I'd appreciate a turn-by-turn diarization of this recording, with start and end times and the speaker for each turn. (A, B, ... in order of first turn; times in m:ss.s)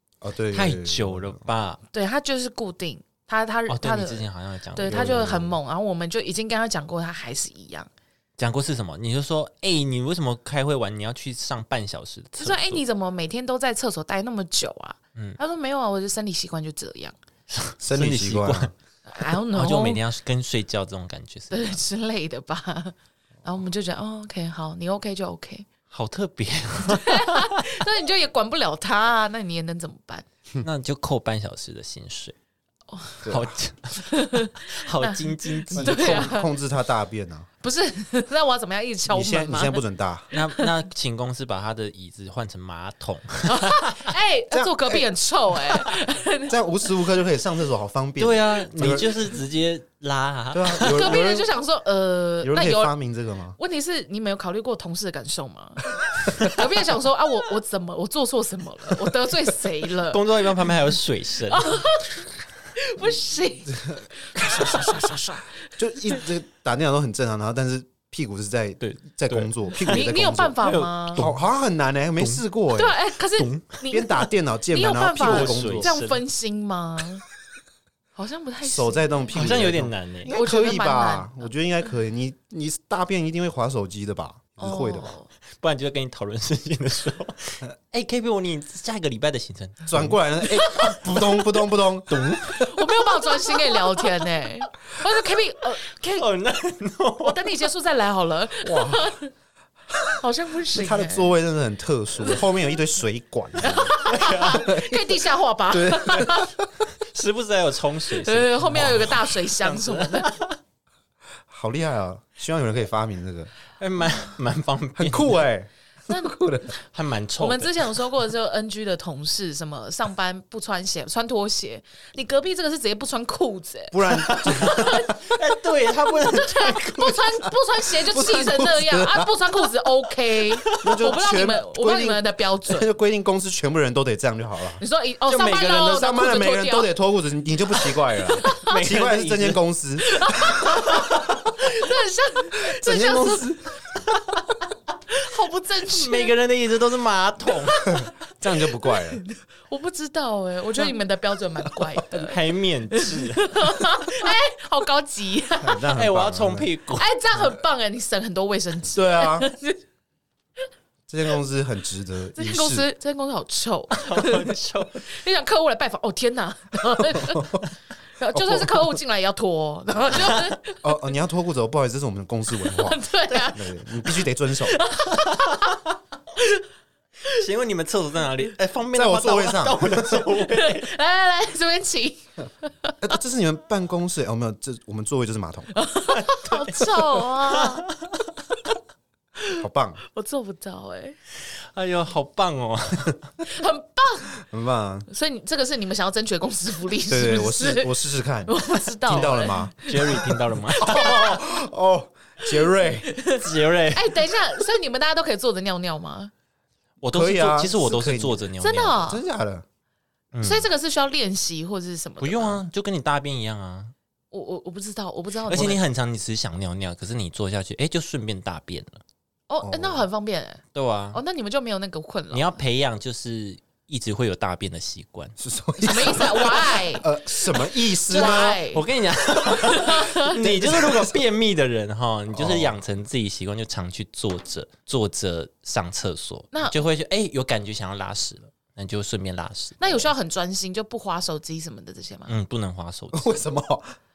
0:00.2-0:01.4 A
0:00.5-0:01.8 B
0:01.9-0:07.9 C
0:03.7-0:05.4 B
0:04.9-0:05.6 A
0:08.4-0:12.8 B
0:12.4-0:17.2 C
0:17.5-0:18.7 B
0:17.8-0:18.7 A
0:19.0-0:20.0 C
0:19.3-0:21.8 B
0:21.5-0:25.7 C
0:25.9-0:27.7 B
0:26.8-0:30.3 C
0:30.6-0:32.4 B
0:32.9-0:33.3 C
0:33.2-0:33.6 A
0:33.3-0:36.3 B
0:33.9-0:36.5 C
0:35.8-0:37.5 A
0:37.6-0:39.8 C
0:39.1-0:40.3 A
0:40.3-0:44.1 B
0:40.3-0:40.7 C
0:43.5-0:46.9 C
0:44.5-0:45.0 A
0:46.5-0:49.2 A
0:48.2-0:51.1 B
0:50.5-0:51.5 A
0:50.8-0:52.9 C
0:52.4-0:53.6 A
0:53.6-1:00.2 C
1:00.1-1:01.8 B
1:01.5-1:06.2 C
1:03.7-1:05.2 A
1:05.8-1:10.6 A
1:08.8-1:11.4 B
1:09.8-1:11.2 C
1:11.2-1:13.0 A
1:12.2-1:12.4 B
1:12.8-1:17.2 C
1:13.4-1:13.7 B
1:13.9-1:15.9 A
1:15.1-1:16.2 B
1:18.2-1:19.4 C
1:18.6-1:25.1 A
1:19.3-1:20.4 B
1:20.3-1:21.5 C
1:24.6-1:25.3 C
1:25.6-1:30.9 B
1:29.9-1:32.7 A
1:30.6-1:30.9 C
1:32.1-1:32.7 B
1:32.6-1:36.3 C
1:36.2-1:37.4 B
1:37.2-1:39.3 C
1:38.6-1:39.1 A
1:40.2-1:41.4 C
1:40.7-1:44.0 A
1:43.6-1:46.5 C
1:44.0-1:44.8 B
1:44.5-1:45.2 A
1:45.7-1:46.9 A
1:47.0-1:50.6 B
1:48.2-1:50.3 C
1:51.5-1:53.5 A
1:53.8-1:55.4 B
1:55.0-1:55.7 A
1:56.1-1:56.7 C
1:56.2-1:56.7 A
1:56.9-1:57.9 B
1:57.4-2:05.3 C
2:03.9-2:05.1 A
2:04.2-2:07.4 B
2:06.2-2:12.9 C
2:08.0-2:09.3 A
2:10.6-2:11.0 B
2:10.7-2:14.8 A
2:14.8-2:16.9 C
2:15.3-2:16.1 B
2:15.8-2:21.6 A
2:17.8-2:18.8 C
2:18.4-2:19.6 B
2:20.0-2:23.6 C
2:22.7-2:23.8 A
2:24.1-2:24.5 B
2:25.1-2:26.3 C
2:25.8-2:27.9 B
2:27.6-2:28.1 C
2:28.4-2:29.2 A
2:28.8-2:32.4 C
2:32.1-2:33.9 B
2:32.9-2:35.8 C
2:35.6-2:36.7 A
2:35.9-2:37.1 B
2:37.0-2:39.8 C
2:38.9-2:39.5 A
2:41.1-2:42.9 A
2:42.4-2:50.9 C
2:43.9-2:45.0 B
2:47.3-2:47.6 A
2:48.3-2:48.9 A
2:49.9-2:54.8 A
2:52.6-2:55.8 C
2:55.1-2:55.8 B
2:56.4-2:56.6 C
2:57.3-3:00.9 B
2:58.9-3:00.3 A
3:00.5-3:03.0 C
3:03.0-3:05.7 A
3:05.7-3:07.9 C
3:06.1-3:08.2 B
3:09.5-3:11.2 C
3:09.6-3:10.0 A
3:11.5-3:13.3 B
3:13.4-3:14.3 C
3:14.4-3:15.1 A
3:15.1-3:18.0 C
3:17.1-3:20.2 A
3:18.5-3:20.2 C
3:19.1-3:21.4 B
3:20.8-3:21.4 C
3:20.8-3:23.1 A
3:22.6-3:26.3 C
3:23.3-3:24.2 B
3:27.0-3:29.0 B
3:27.1-3:28.5 A
3:28.6-3:29.2 C
3:29.0-3:29.6 A
3:30.3-3:30.7 B
3:30.4-3:32.6 C
3:32.2-3:33.9 B
3:34.3-3:35.8 C
3:35.5-3:39.0 B
3:39.5-3:40.6 C
3:39.6-3:40.1 A
3:40.7-3:41.2 B
3:41.1-3:42.6 C
3:42.3-3:45.4 B
3:45.4-3:48.6 A
3:45.8-3:47.1 C
3:48.1-4:00.1 B
3:48.1-3:48.9 C
3:49.6-3:50.4 C
3:50.4-3:51.2 A
3:52.3-3:52.8 A
3:56.5-3:56.8 C
3:59.8-4:02.3 C
4:02.3-4:03.4 B
4:03.1-4:03.9 A